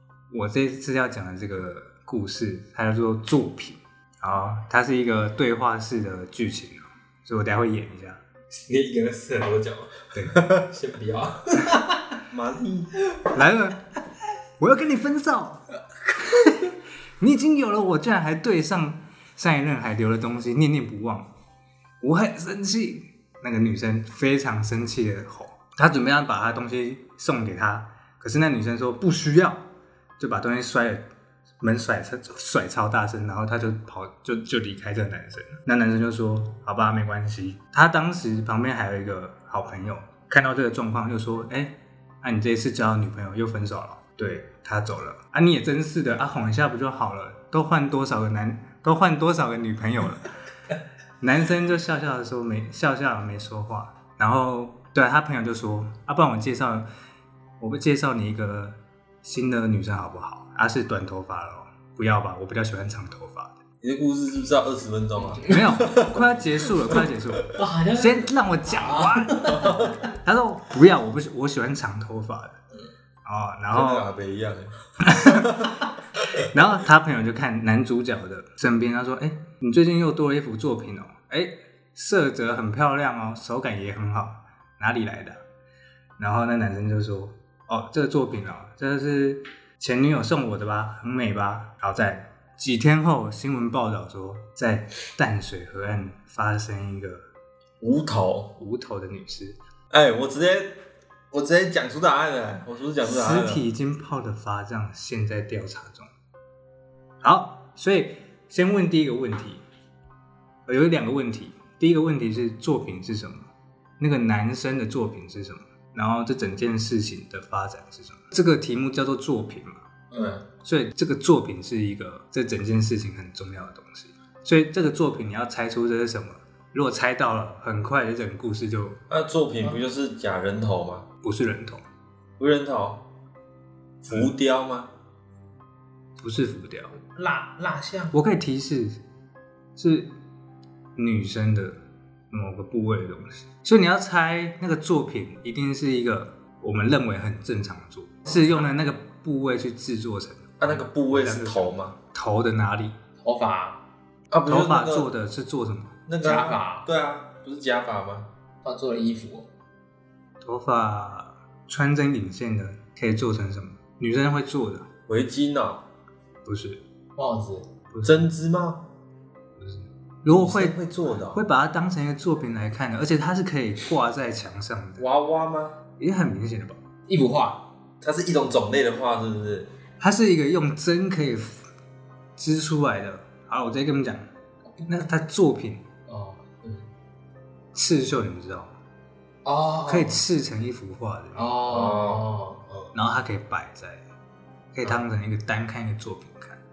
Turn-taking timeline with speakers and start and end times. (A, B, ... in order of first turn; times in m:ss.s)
0:00.3-0:08.2 A
0:08.7-0:12.2 B
0:10.1-0:10.5 A
0:12.3-0:12.9 C
0:13.3-0:13.9 A
0:14.6-0:21.3 A
0:22.0-0:29.6 A
0:30.2-0:31.0 A
0:31.6-0:50.3 A
0:51.2-0:56.9 A
0:57.6-1:03.6 A
1:03.8-1:07.0 C
1:05.5-1:12.6 A
1:07.6-1:09.8 B
1:09.6-1:09.9 C
1:13.2-1:14.1 A
1:13.7-1:15.7 C
1:15.0-1:15.7 A
1:16.4-1:25.4 A
1:26.2-1:37.2 A
1:37.8-1:38.5 C
1:38.6-1:39.6 A
1:39.9-1:40.8 C
1:41.3-1:43.6 C
1:43.0-1:46.1 A
1:47.2-1:49.6 A
1:50.7-1:59.8 A
2:00.1-2:00.4 B
2:00.6-2:09.0 A
2:09.1-2:11.1 C
2:11.2-2:11.8 A
2:12.4-2:13.0 C
2:14.0-2:14.9 C
2:16.2-2:16.9 A
2:17.1-2:18.1 B
2:18.1-2:19.0 A
2:19.8-2:20.1 A
2:21.0-2:21.8 A
2:22.3-2:33.0 A
2:30.6-2:32.0 C
2:33.2-2:33.8 B
2:34.3-2:35.1 C
2:34.5-2:36.0 A
2:36.1-2:38.3 C
2:36.2-2:36.9 B
2:38.6-2:39.5 B
2:40.4-2:44.9 A
2:45.1-2:45.8 C
2:46.4-2:46.8 A
2:47.2-2:47.7 B
2:47.9-2:48.3 A
2:48.0-2:48.8 C
2:49.6-2:50.8 A
2:50.3-2:51.4 C
2:51.3-2:55.0 A
2:55.0-2:55.8 C
2:56.0-2:56.8 A
2:57.1-2:57.6 B
2:58.0-2:59.7 C
3:00.0-3:01.6 A
3:02.4-3:04.3 A
3:04.7-3:05.1 B
3:04.9-3:05.8 A
3:06.1-3:06.9 B
3:07.7-3:08.7 A
3:09.4-3:10.2 B
3:09.9-3:11.6 A
3:11.4-3:12.9 B
3:11.7-3:12.2 C
3:12.9-3:14.0 A
3:14.7-3:16.6 A